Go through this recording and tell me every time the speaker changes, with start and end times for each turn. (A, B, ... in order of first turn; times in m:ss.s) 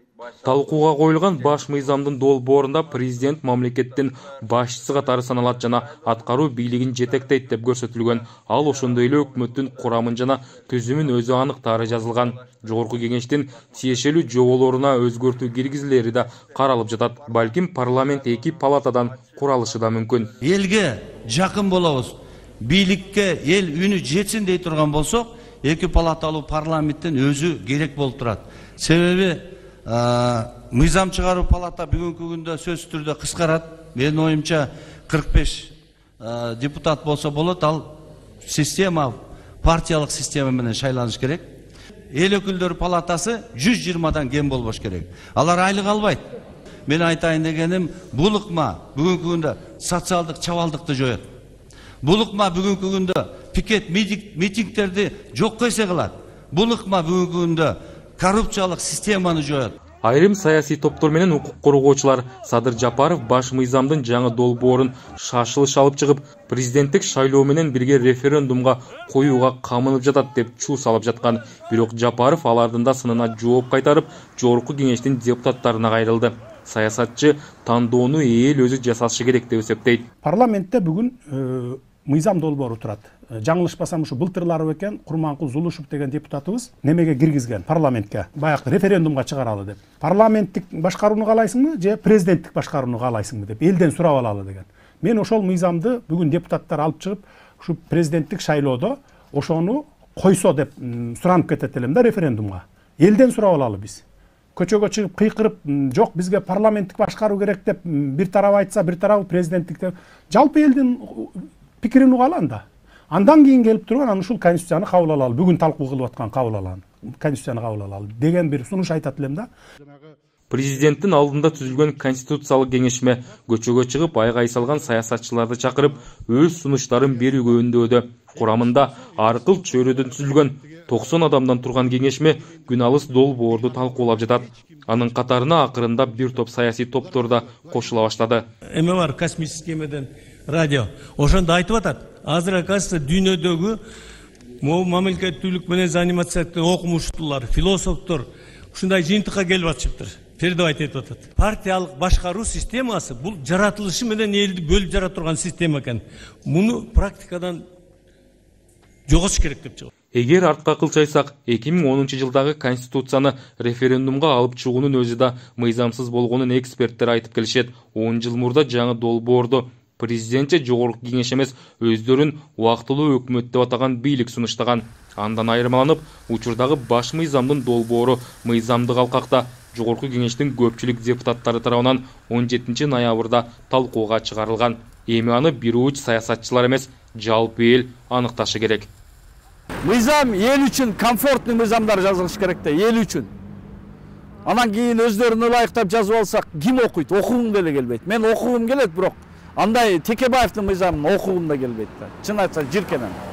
0:00.4-0:20.3 A
0:20.4-0:41.5 B
0:42.1-0:46.3 B
0:46.9-0:51.2 B
0:52.0-0:59.8 B
1:00.0-1:20.0 A
1:20.2-1:44.0 C
1:44.6-1:59.5 C
2:00.5-2:18.4 A
2:18.7-2:23.8 D
2:24.6-2:37.6 D
2:39.1-2:39.9 D
2:40.1-3:08.9 A
3:09.8-3:13.3 E
3:14.4-3:23.2 E